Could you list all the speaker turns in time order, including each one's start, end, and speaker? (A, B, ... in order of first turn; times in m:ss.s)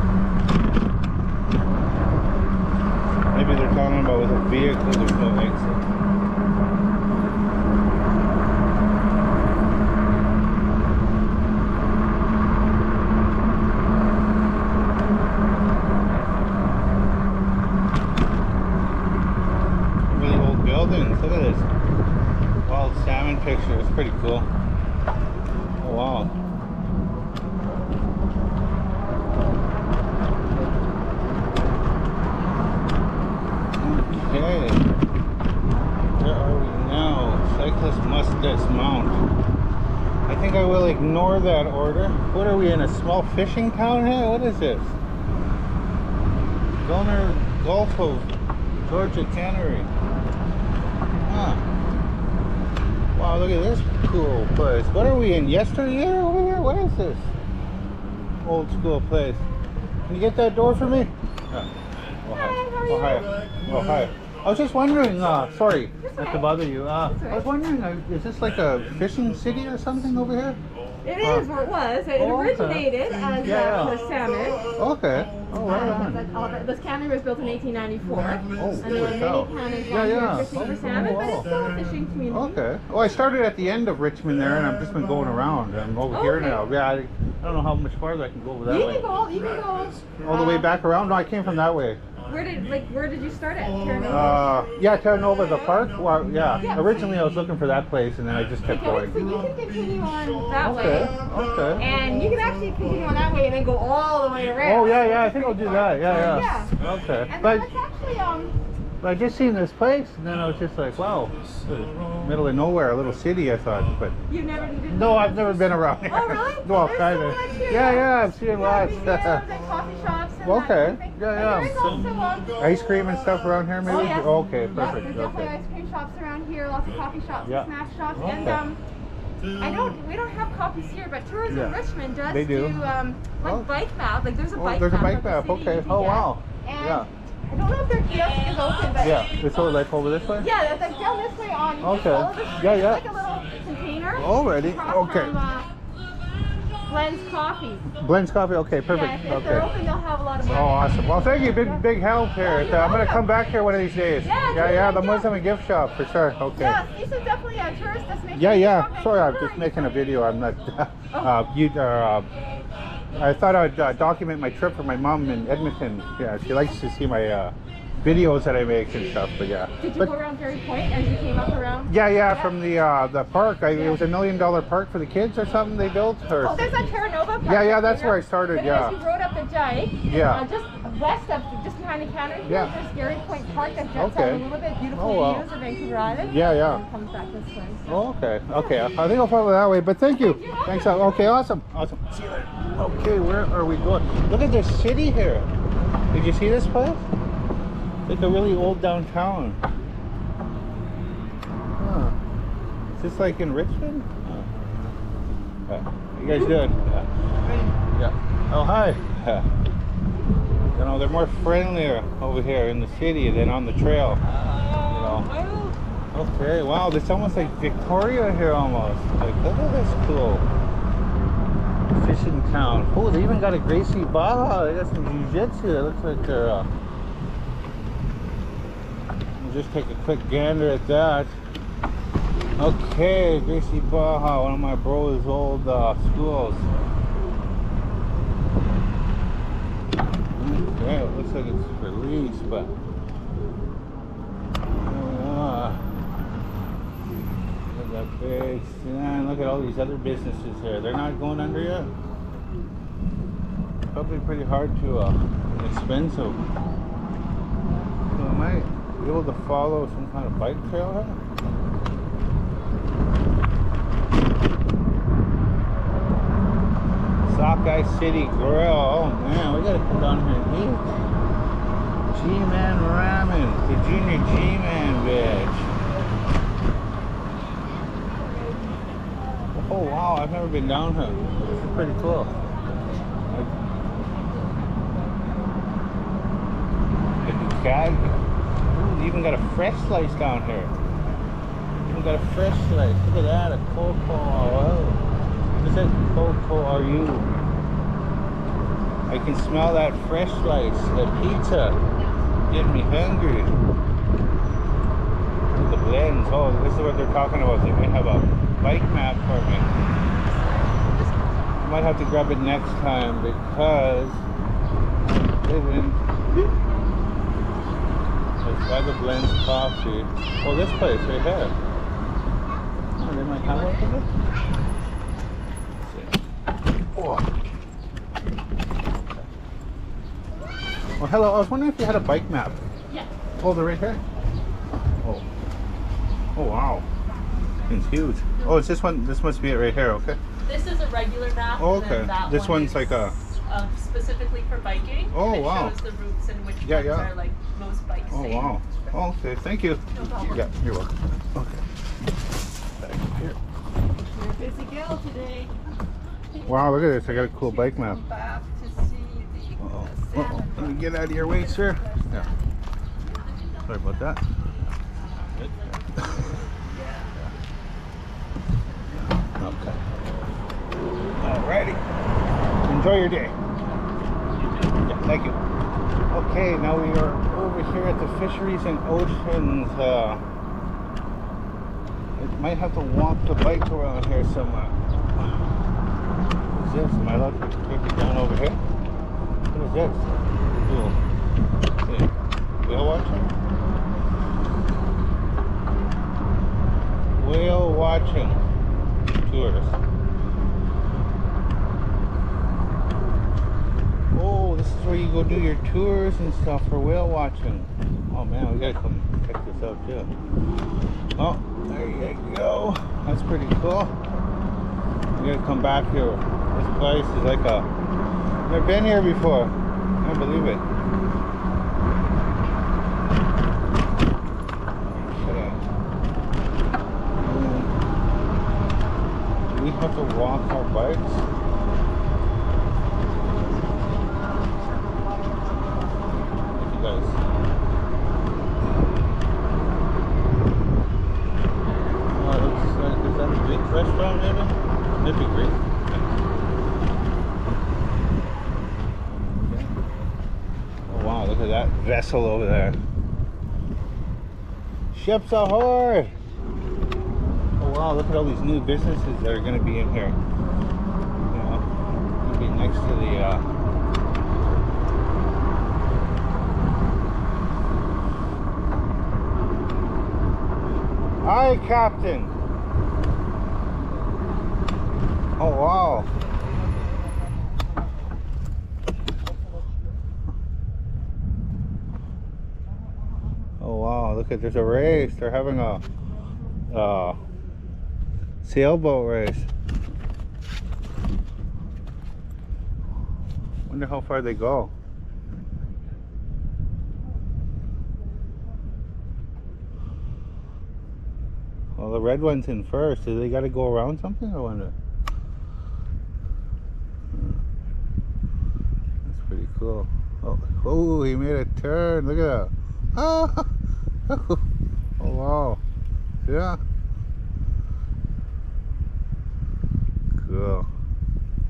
0:03.3-0:05.8 A
0:20.1-0:21.7 A
0:22.6-0:24.5 A
0:25.8-0:26.3 A
0:33.7-0:34.9 A
0:36.2-0:39.2 A
0:40.3-0:45.0 A
0:46.8-0:48.3 A
0:48.9-0:49.9 A
0:51.3-0:51.6 A
0:53.1-0:57.3 A
0:58.4-0:59.4 A
1:00.1-1:01.7 A
1:02.2-1:10.6 A
1:02.3-1:03.3 B
1:06.0-1:07.5 B
1:11.0-1:14.7 B
1:11.2-1:11.5 A
1:12.2-1:12.9 A
1:13.4-1:14.0 A
1:14.8-1:16.2 A
1:15.6-1:22.6 B
1:18.6-1:21.5 A
1:22.3-1:29.1 A
1:26.1-1:26.6 B
1:28.6-1:30.7 B
1:30.2-1:32.0 A
1:32.3-1:34.7 B
1:34.1-1:39.2 A
1:35.5-1:35.9 B
1:36.6-1:37.0 B
1:38.7-1:41.2 B
1:40.6-1:41.9 A
1:41.8-1:46.7 B
1:44.6-1:47.7 A
1:47.3-1:48.6 B
1:49.0-1:54.2 A
1:54.3-2:02.7 B
1:54.8-1:59.4 A
2:00.4-2:02.0 A
2:02.6-2:05.6 A
2:03.8-2:08.8 B
2:07.4-2:08.6 A
2:09.6-2:19.5 B
2:11.5-2:11.8 A
2:12.3-2:12.8 A
2:13.4-2:13.7 A
2:14.6-2:17.1 A
2:19.0-2:20.5 A
2:20.3-2:25.7 B
2:21.8-2:23.1 A
2:24.1-2:25.4 A
2:26.9-2:27.9 B
2:28.0-2:29.7 A
2:28.9-2:31.9 B
2:30.5-2:36.8 A
2:32.4-2:33.4 B
2:34.2-2:35.4 B
2:36.5-2:39.8 B
2:38.3-2:42.3 A
2:43.1-2:50.1 A
2:49.8-2:51.9 B
2:51.9-2:56.8 A
2:53.7-2:54.0 B
2:56.4-3:08.0 B
2:57.4-2:59.0 A
3:00.1-3:00.5 A
3:02.4-3:02.7 A
3:04.0-3:05.5 A
3:06.2-3:06.8 A
3:07.9-3:15.5 A
3:10.2-3:11.3 B
3:16.1-3:17.0 A
3:18.1-3:19.6 A
3:21.8-3:22.2 A
3:22.9-3:24.5 A
3:25.7-3:27.1 A
3:27.8-3:29.5 A
3:30.7-3:34.2 A
3:34.5-3:35.7 B
3:34.5-3:34.8 C
3:34.8-3:35.3 A
3:36.1-3:40.5 A
3:41.9-3:46.7 A
3:49.4-3:51.3 A
3:52.6-3:56.7 A
4:00.3-4:02.7 A
4:04.8-4:05.8 A
4:07.7-4:11.9 A
4:13.9-4:16.4 A
4:18.1-4:21.2 A
4:27.2-4:31.1 A
4:32.1-4:35.7 A
4:39.5-4:42.3 A
4:47.2-4:48.2 A
4:48.7-4:50.7 A
4:51.9-4:55.0 A
4:55.6-4:57.3 A
4:59.1-5:01.8 A
5:02.5-5:03.6 A
5:05.5-5:09.8 A
5:10.3-5:11.6 C
5:11.6-5:14.2 A
5:15.0-5:16.0 A
5:18.4-5:21.6 A
5:23.0-5:24.1 A
5:25.8-5:26.2 A
5:27.0-5:27.3 A
5:31.0-5:32.6 A
5:33.4-5:34.0 A
5:36.4-5:36.9 A
5:37.7-5:40.2 A
5:40.4-5:48.7 C
5:41.6-5:43.2 A
5:45.1-5:45.8 A
5:46.6-5:47.1 A
5:48.1-5:51.6 A
5:49.9-5:50.5 C
5:50.0-5:50.4 B
5:52.8-5:53.4 A
5:54.1-5:55.5 B
5:56.3-6:00.8 B
5:56.4-5:58.0 A
5:59.6-6:02.3 A
6:01.4-6:02.4 B
6:03.6-6:04.3 A
6:05.4-6:06.3 A
6:09.2-6:09.8 A
6:11.2-6:11.8 A
6:12.6-6:13.4 A
6:14.8-6:15.4 A
6:16.1-6:20.2 A
6:22.2-6:25.4 A
6:26.5-6:28.6 A
6:29.5-6:31.0 A
6:31.8-6:32.1 A
6:32.6-6:33.3 A
6:37.2-6:38.4 A
6:39.2-6:39.8 A
6:44.1-6:50.1 A
6:51.2-6:53.9 A
6:55.1-6:57.7 A
6:58.5-7:00.6 A
7:04.9-7:05.6 A
7:07.2-7:07.7 A
7:09.5-7:11.2 A
7:16.6-7:17.2 A
7:22.1-7:25.6 A
7:29.4-7:29.7 A
7:30.9-7:32.8 A
7:34.9-7:36.1 A
7:37.6-7:40.2 A
7:41.3-7:41.6 A
7:42.2-7:43.4 A
7:51.2-7:52.3 A
7:55.4-7:56.1 A
8:03.6-8:05.8 A
8:06.7-8:07.2 A
8:08.4-8:09.5 A
8:13.7-8:14.7 A
8:21.8-8:24.8 A
8:27.1-8:27.4 A
8:29.0-8:33.5 A
8:34.1-8:34.4 A
8:35.0-8:35.6 A
8:36.2-8:36.6 A
8:40.1-8:40.7 A